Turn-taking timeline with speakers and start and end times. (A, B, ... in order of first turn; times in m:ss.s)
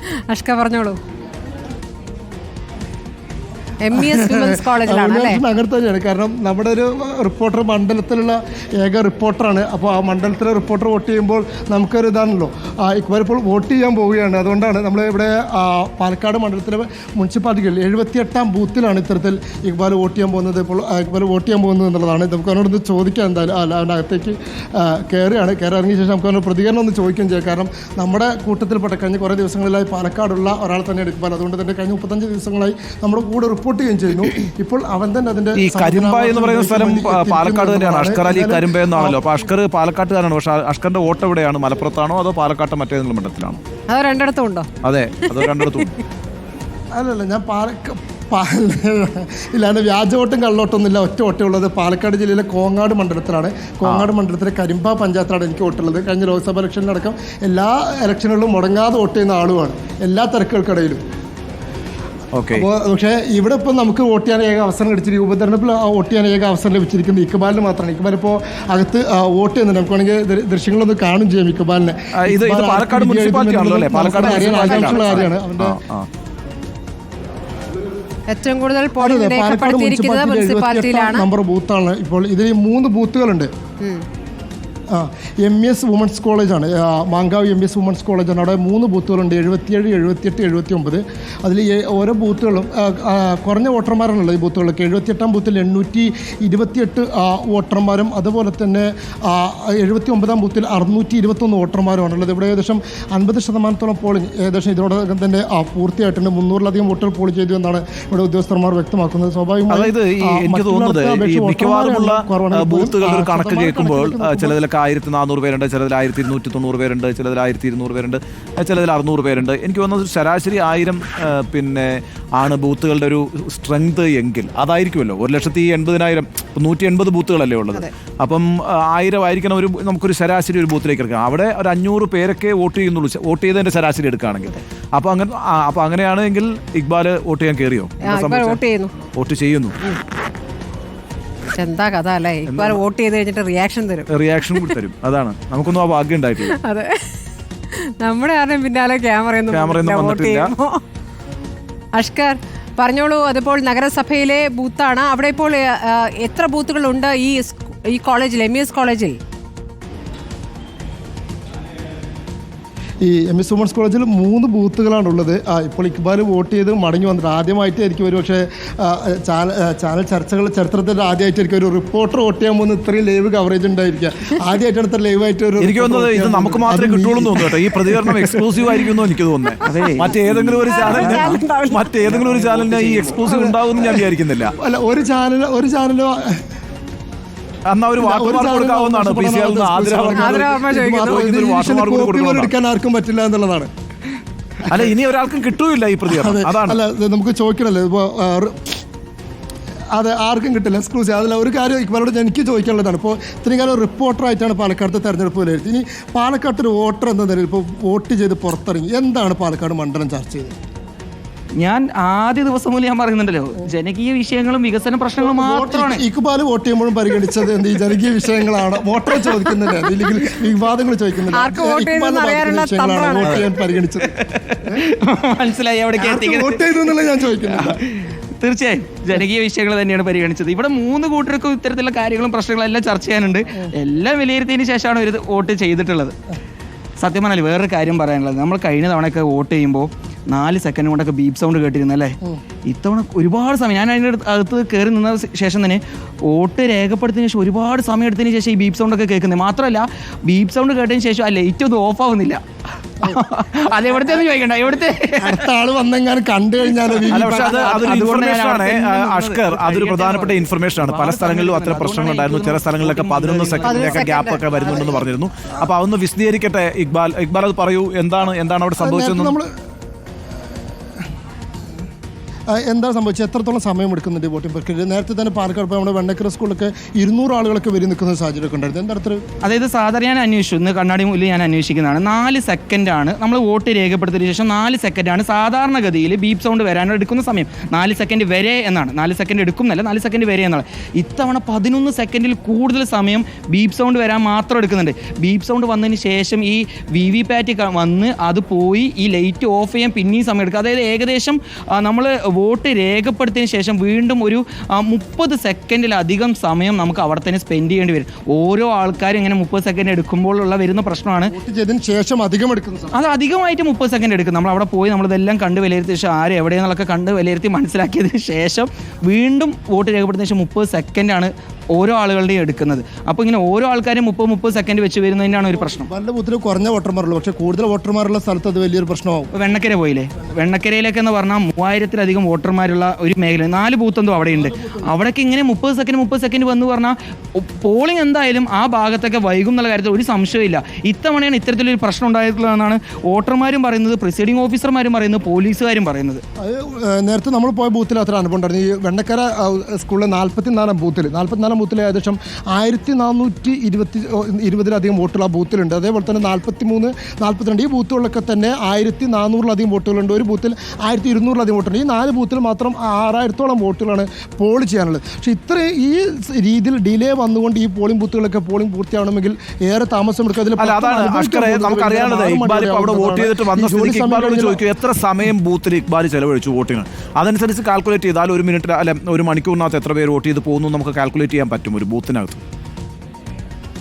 0:00.3-0:01.0 A
0:03.8-0:05.4 A
0:03.9-0:39.5 B
0:35.6-0:43.6 C
0:43.9-0:44.7 A
0:44.8-0:45.9 C
0:45.3-0:45.9 A
0:47.0-1:01.0 B
0:53.8-0:54.1 C
1:02.3-1:02.7 C
1:02.5-1:15.8 B
1:12.2-1:16.1 C
1:14.2-1:15.3 A
1:18.3-1:21.3 A
1:19.0-1:23.5 B
1:24.9-1:54.6 B
1:49.7-2:18.6 C
2:18.0-2:18.9 A
2:19.2-2:19.8 C
2:21.5-2:24.7 A
2:22.5-2:22.8 C
2:24.1-2:26.5 C
2:26.5-2:27.1 A
2:28.0-2:30.8 A
2:29.5-2:30.5 C
2:32.0-2:39.2 A
2:43.0-2:58.4 B
2:55.6-3:04.6 C
2:59.6-3:01.4 D
3:00.7-3:01.9 A
3:02.0-3:03.2 D
3:03.3-3:06.4 B
3:07.7-3:12.5 C
3:08.0-3:13.7 B
3:10.1-3:11.3 A
3:14.7-3:16.8 C
3:16.1-3:18.8 B
3:19.9-3:30.5 B
3:31.6-3:36.0 D
3:35.2-3:44.1 B
3:39.6-3:39.9 D
3:41.3-3:43.4 A
3:44.0-3:56.2 D
3:46.0-3:47.8 B
3:57.0-4:02.2 D
4:02.7-4:12.4 D
4:13.0-4:15.4 D
4:15.2-4:18.0 B
4:17.0-4:24.1 D
4:17.1-4:29.4 C
4:23.6-4:25.0 A
4:28.8-4:29.5 B
4:32.5-4:39.2 B
4:39.4-5:11.3 D
5:11.2-5:12.9 B
5:12.9-5:25.9 D
5:25.5-5:29.3 B
5:29.3-5:46.2 D
5:34.4-5:34.9 B
5:46.4-6:14.6 B
6:10.6-6:22.4 C